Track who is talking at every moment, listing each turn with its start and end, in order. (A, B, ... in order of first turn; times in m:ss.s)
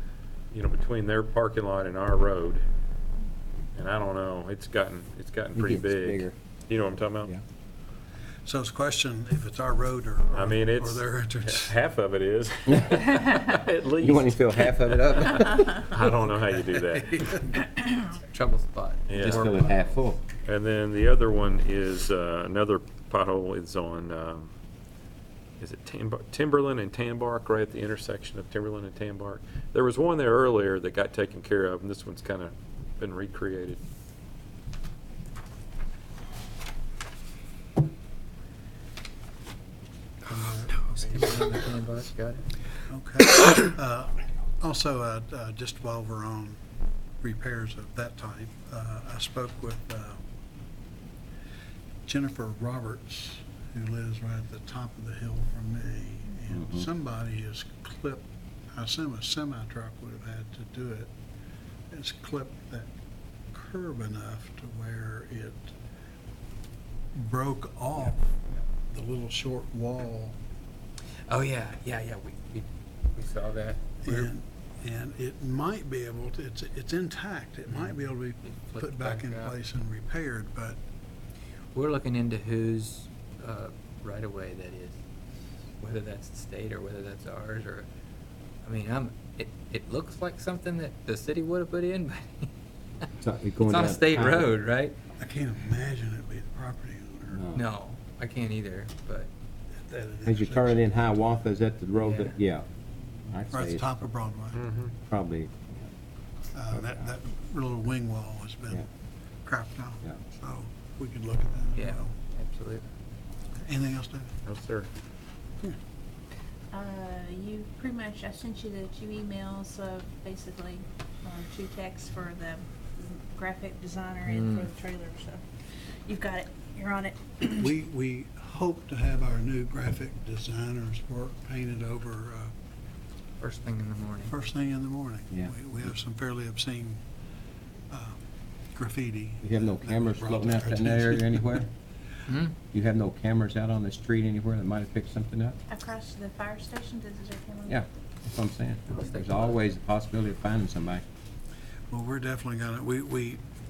0:00.5-0:02.6 A
0:03.8-0:07.3 A
0:05.6-0:06.3 B
0:08.4-0:11.7 C
0:10.4-0:17.4 A
0:14.0-0:15.8 B
0:17.1-0:17.4 C
0:17.8-0:20.0 D
0:19.1-0:19.5 A
0:19.2-0:20.2 B
0:20.4-0:24.5 A
0:25.6-0:33.8 A
0:40.3-0:40.8 C
0:40.8-0:42.5 D
0:42.9-0:46.6 C
0:47.2-0:50.2 C
0:52.1-1:01.1 C
0:56.5-0:56.8 B
1:01.9-1:02.9 C
1:03.5-1:05.7 C
1:07.1-1:10.4 C
1:11.3-1:14.3 D
1:14.0-1:20.8 C
1:17.7-1:19.6 D
1:21.7-1:25.0 D
1:25.8-1:27.9 D
1:28.6-1:32.5 D
1:33.2-1:34.6 B
1:33.6-1:35.0 D
1:35.2-1:37.4 C
1:37.3-1:37.6 B
1:37.5-1:39.3 D
1:39.8-1:40.9 C
1:40.3-1:42.7 B
1:42.0-1:42.3 D
1:43.3-1:44.0 B
1:43.5-1:44.6 C
1:44.6-1:44.9 A
1:45.1-1:45.9 B
1:46.5-1:48.9 C
1:46.7-1:47.1 B
1:49.4-1:52.1 C
1:51.8-1:52.8 D
1:53.6-1:54.3 C
1:54.4-1:54.9 A
1:56.7-2:05.4 E
2:04.2-2:04.7 D
2:06.1-2:07.7 E
2:07.5-2:12.5 C
2:13.4-2:14.3 D
2:14.3-2:17.0 C
2:17.9-2:18.2 C
2:18.8-2:21.5 C
2:19.4-2:21.7 B
2:22.3-2:22.5 D
2:22.7-2:25.6 B
2:25.7-2:27.8 E
2:27.7-2:31.0 B
2:28.9-2:29.6 D
2:31.9-2:33.4 C